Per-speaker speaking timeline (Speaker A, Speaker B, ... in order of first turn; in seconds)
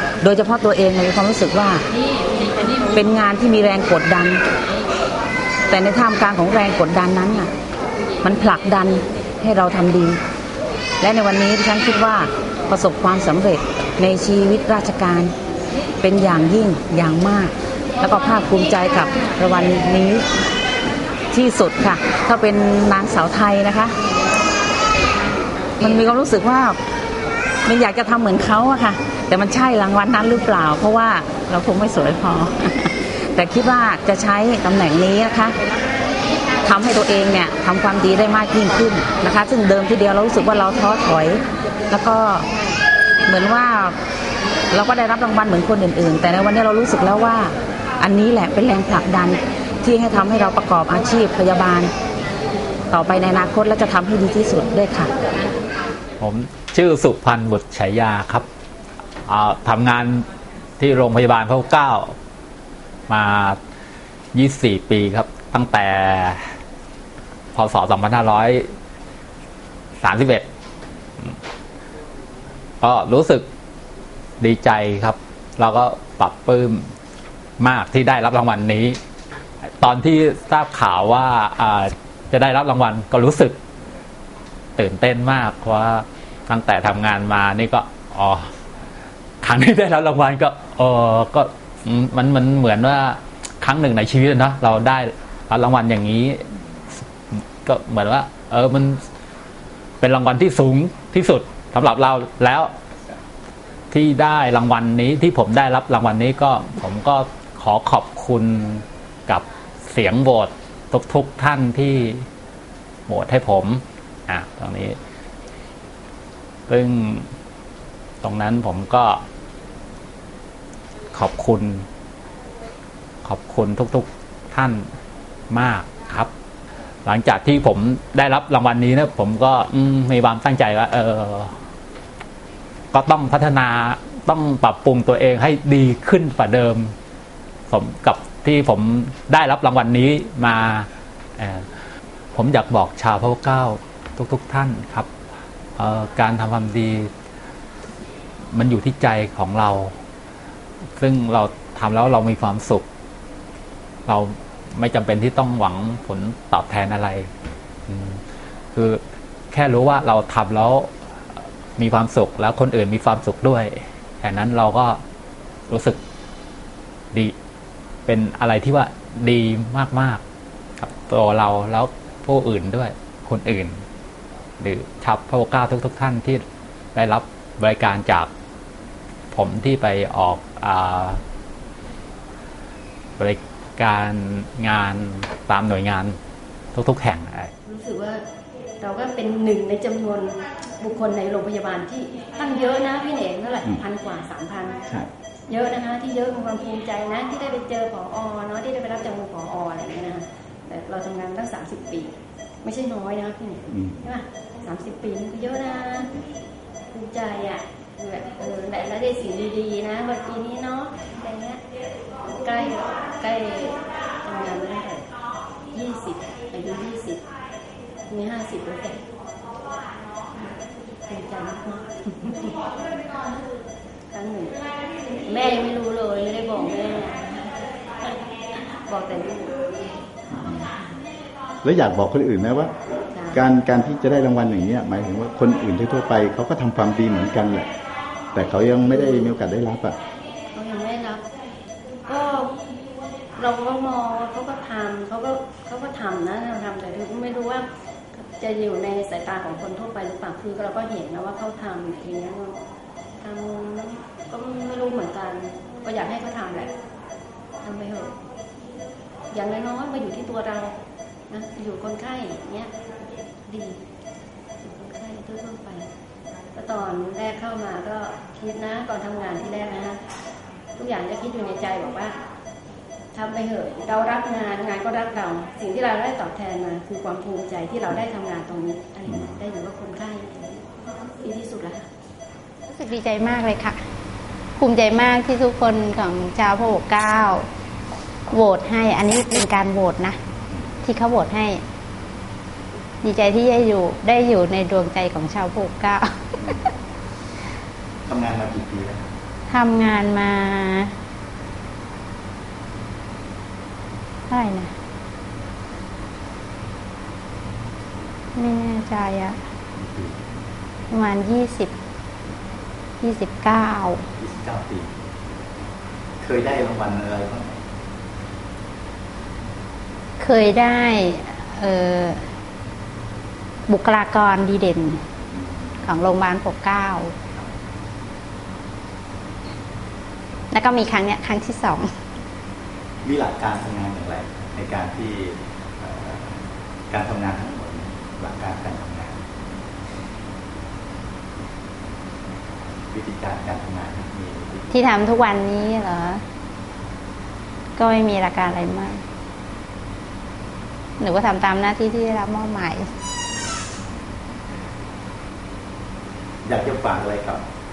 Speaker A: 0.2-1.8, 2.9-4.4, 5.7-7.5, 8.2-10.2, 11.0-15.3, 16.0-20.2, 21.3-24.0, 25.8-26.8, 27.6-35.6, 36.6-42.5, 43.2-44.0, 44.7-51.9, 52.9-55.1
Speaker B: 56.2-58.4, 59.3-60.2, 60.8-62.1, 63.1-63.6, 64.3-66.4, 67.5-68.7, 70.0-70.5, 72.8-73.5, 74.4-76.8, 77.6-79.0, 79.8-83.6, 84.8-88.5, 89.4-97.0, 97.6-99.0, 100.0-102.7, 103.9-112.2, 113.1-115.0, 116.7-117.2, 118.2-119.2, 121.1-121.8, 123.2-124.8, 125.5-126.3, 127.0-131.5, 132.9-136.9, 137.7-140.9, 141.4-141.7, 142.3-145.1, 145.8-147.1, 148.5-149.9, 151.0-152.8, 154.1-157.3, 157.9-158.2, 158.7-159.0, 159.5-160.9, 161.8-165.0, 165.7-166.0, 168.1-170.2, 170.8-173.8, 174.6-176.4, 176.9-178.3, 179.3-181.2, 183.2-186.2, 186.7-187.5
Speaker C: 187.7-188.2, 188.8-194.8, 195.5-206.1, 206.9-211.6, 212.3-215.1, 215.7-217.2, 218.1-219.0, 221.1-222.6, 224.1-224.5, 225.2-229.7, 230.4-230.9, 233.1-233.4, 238.9-239.3, 240.5-241.2, 242.1-242.5, 243.3-247.7, 248.2-252.6, 253.2-256.7, 257.6-258.1, 259.3-260.8, 261.3-262.7, 263.4-263.8, 264.6-265.9, 266.5-270.0, 270.8-272.2, 273.1-280.6, 281.2-281.9
Speaker D: 203.7-204.0, 230.3-230.7, 231.6-232.7, 233.3-237.7, 238.3-240.0, 290.5-290.8, 296.4-296.7, 298.1-299.1, 309.8-310.2, 314.2-314.9, 316.2-317.6, 325.3-325.9, 333.0-339.2, 342.9-344.7, 356.4-357.4
Speaker E: 282.7-283.8, 284.6-287.4, 288.3-290.2, 290.8-291.6, 293.0-296.4, 299.5-300.9, 304.3-304.7, 308.3-309.4, 310.9-311.7, 313.0-314.0, 320.2-322.2, 323.7-325.0, 325.8-327.1, 330.5-331.9, 344.7-346.2, 347.8-349.0, 351.0-352.9